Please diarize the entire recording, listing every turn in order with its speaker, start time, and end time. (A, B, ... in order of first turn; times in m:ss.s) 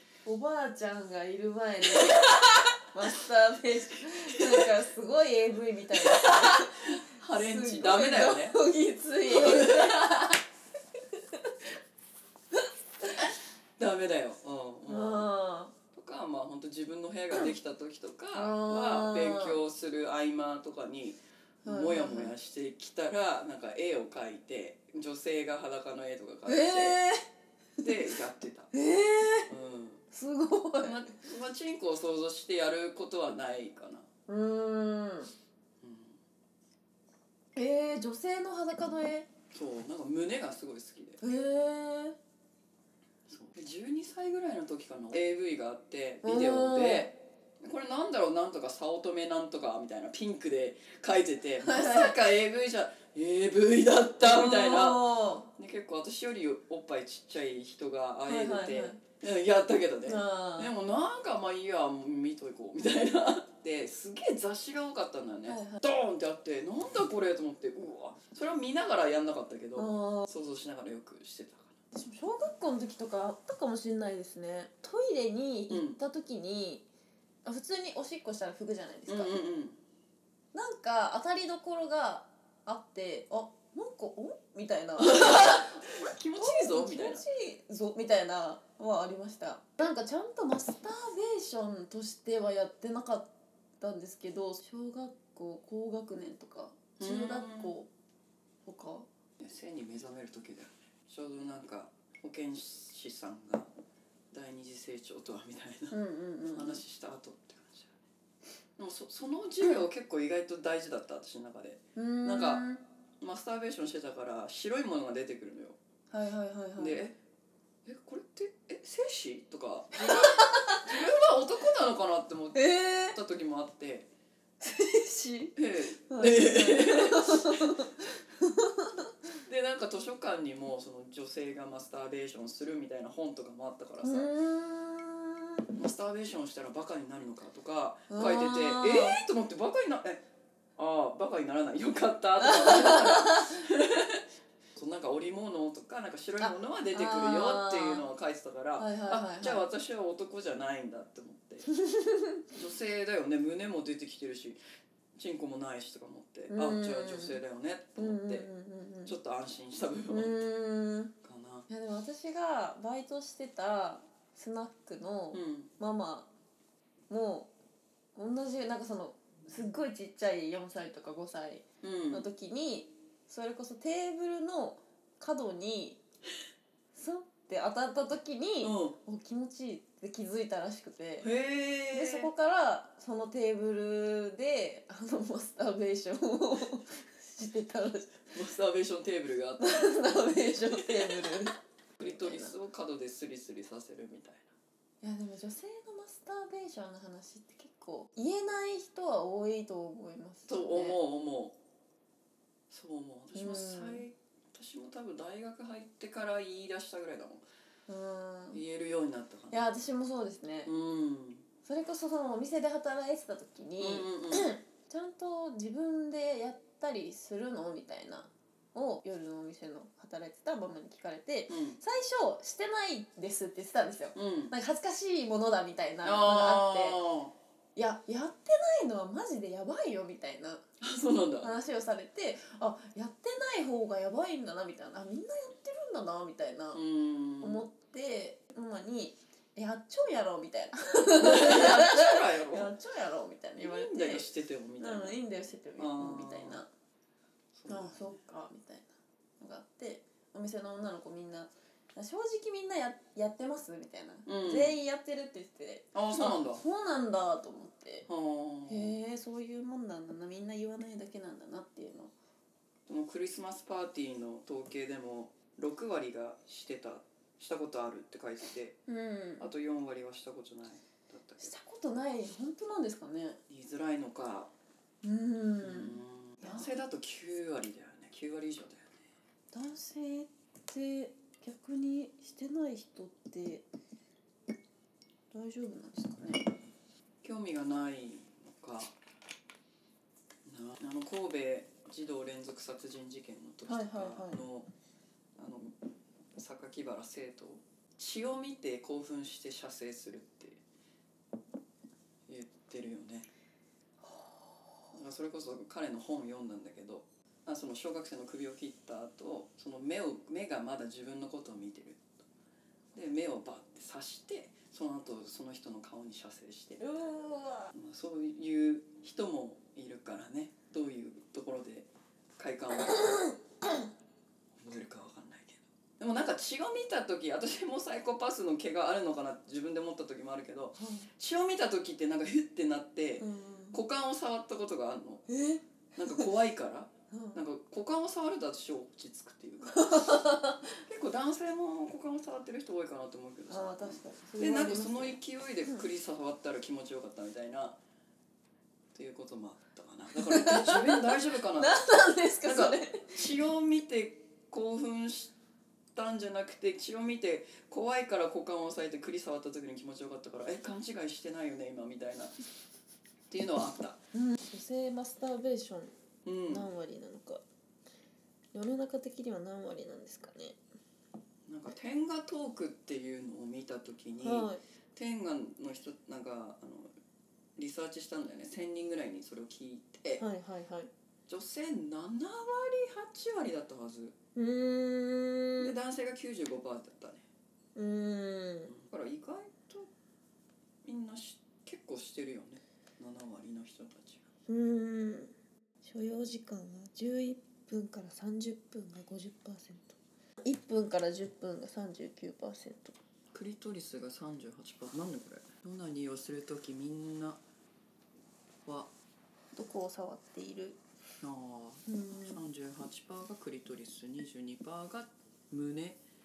0:00.2-0:10.4 A
0:01.9-0:02.7 B
0:04.3-0:04.7 B
0:05.9-0:08.6 B
0:09.2-0:10.2 B
0:11.1-0:11.5 A
0:12.5-0:13.2 A
0:13.2-0:15.3 B
0:14.8-0:15.7 A
0:15.9-0:27.0 B
0:18.3-0:19.6 A
0:21.6-0:22.3 A
0:26.4-0:27.2 A
0:27.8-0:28.7 B
0:28.7-0:29.5 A
0:29.5-0:30.0 B
0:30.1-0:31.0 A
0:30.8-0:34.1 B
0:34.3-0:35.3 A
0:35.8-0:36.2 B
0:37.6-0:39.3 A
0:39.5-0:41.2 B
0:41.2-0:42.2 A
0:43.3-1:11.8 B
0:46.2-0:47.1 A
0:51.6-0:52.2 A
0:54.2-0:55.5 A
0:58.3-0:59.0 A
1:00.0-1:00.7 A
1:05.4-1:05.8 A
1:09.8-1:10.3 A
1:11.9-1:16.8 A
1:15.7-1:16.0 B
1:17.4-1:19.4 A
1:19.1-1:19.8 B
1:20.5-1:37.9 A
1:25.0-1:27.2 B
1:37.0-1:37.7 B
1:38.6-1:39.1 A
1:39.4-1:43.7 B
1:44.3-1:48.0 B
1:45.9-1:46.8 A
1:48.8-1:52.6 B
1:52.0-1:52.8 A
1:53.2-1:55.8 B
1:56.1-1:57.0 A
1:56.8-1:57.2 B
1:57.8-2:04.1 B
2:00.0-2:00.9 A
2:02.5-2:03.2 A
2:04.6-2:09.1 A
2:05.6-2:07.8 B
2:09.4-2:14.3 B
2:14.0-2:15.6 A
2:15.8-2:20.2 B
2:18.1-2:19.2 A
2:20.8-2:24.2 B
2:22.4-2:23.6 A
2:24.7-2:31.7 B
2:26.4-2:28.0 A
2:28.8-2:29.6 A
2:31.7-2:32.4 A
2:32.5-2:34.6 B
2:35.2-2:38.5 B
2:36.5-2:37.4 A
2:38.0-2:39.1 A
2:39.0-2:40.4 B
2:40.1-2:41.1 A
2:41.2-2:41.7 B
2:41.7-2:46.3 A
2:45.3-2:45.7 B
2:47.1-2:47.5 A
2:48.2-2:56.0 A
2:51.8-2:52.2 B
2:56.9-3:01.3 A
2:58.6-2:59.0 B
3:01.2-3:02.3 B
3:01.9-3:08.3 A
3:08.3-3:11.4 B
3:09.6-3:12.5 A
3:12.0-3:14.5 B
3:15.0-3:21.0 A
3:20.5-3:21.6 B
3:22.7-3:27.4 B
3:23.3-3:24.0 A
3:27.9-3:28.6 A
3:28.5-3:29.6 B
3:29.5-3:30.7 A
3:30.6-3:31.4 B
3:31.6-3:47.0 A
3:33.8-3:34.5 B
3:41.5-3:41.8 B
3:44.1-3:44.5 B
3:46.0-3:47.3 B
3:47.8-3:50.6 A
3:50.8-3:51.5 B
3:51.4-3:56.8 A
3:56.7-3:57.6 B
3:57.4-4:04.2 A
4:01.1-4:02.7 B
4:03.6-4:05.2 B
4:04.8-4:06.7 A
4:05.8-4:06.6 B
4:07.5-4:08.2 B
4:07.7-4:18.1 A
4:14.2-4:14.8 B
4:15.9-4:16.6 B
4:18.1-4:18.9 B
4:18.7-4:22.1 A
4:22.9-4:28.8 B
4:28.9-4:29.5 A
4:29.4-4:31.5 B
4:31.4-4:33.4 A
4:33.5-4:34.5 B
4:35.0-4:36.7 A
4:35.6-4:39.0 B
4:39.5-4:43.6 A
4:45.3-4:46.5 A
4:47.2-4:48.9 B
4:50.4-4:54.7 B
4:53.7-4:54.4 A
4:55.4-4:55.7 B
4:56.4-5:00.6 B
5:02.3-5:03.3 B
5:04.0-5:04.7 A
5:04.9-5:12.1 B
5:12.9-5:16.9 B
5:16.8-5:17.7 A
5:17.7-5:23.1 B
5:23.0-5:23.3 A
5:24.6-5:35.2 B
5:30.8-5:31.1 A
5:33.2-5:33.8 A
5:35.3-5:36.3 A
5:36.0-5:40.1 B
5:37.1-5:37.4 A
5:39.7-5:40.7 A
5:40.8-5:47.8 B
5:43.5-5:45.8 A
5:48.9-5:51.8 B
5:50.2-5:53.2 A
5:52.4-5:55.3 B
5:55.9-6:02.3 B
6:03.3-6:04.0 B
6:04.1-6:05.9 A
6:06.2-6:06.7 B
6:06.5-6:07.4 A
6:08.5-6:10.6 A
6:11.5-6:16.9 B
6:14.2-6:14.6 A
6:17.6-6:20.2 B
6:20.2-6:20.9 A
6:21.3-6:24.2 B
6:24.4-6:25.7 A
6:25.6-6:27.2 B
6:27.7-6:28.7 A
6:28.7-6:29.9 B
6:30.8-6:34.2 B
6:34.5-6:43.0 A
6:43.3-6:47.4 B
6:48.6-6:48.9 B
6:49.5-6:50.8 A
6:51.2-6:56.0 B
6:51.9-6:52.4 A